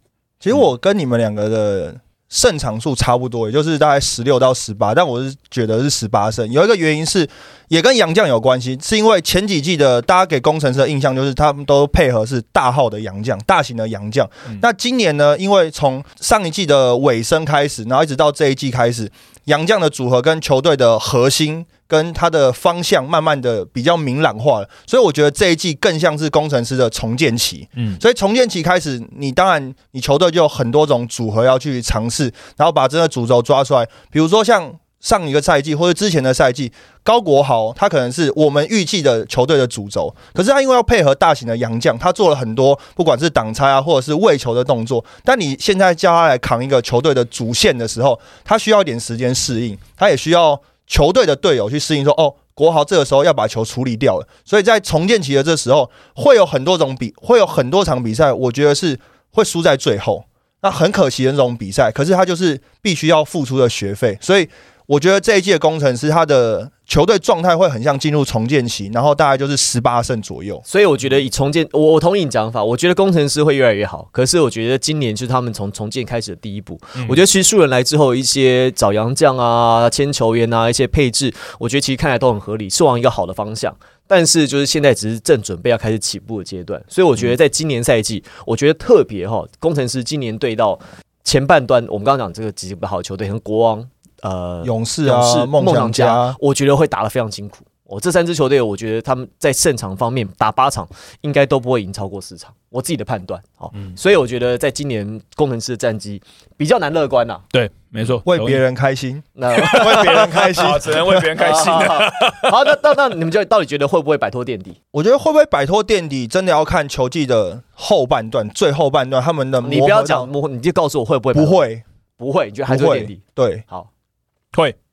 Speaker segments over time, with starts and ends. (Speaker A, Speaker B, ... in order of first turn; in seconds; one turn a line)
Speaker A: 0.4-70.6
Speaker B: 70.7-107.4
Speaker A: 94.6-96.4
Speaker C: 107.5-108.6
Speaker A: 108.2-111.4
Speaker B: 109.4-110.7
Speaker C: 109.6-112.8
Speaker B: 111.3-114.8
Speaker A: 114.9-120.3
Speaker B: 119.6-121.6
Speaker A: 121.3-121.8
Speaker B: 122.2-123.9
Speaker A: 122.7-123.6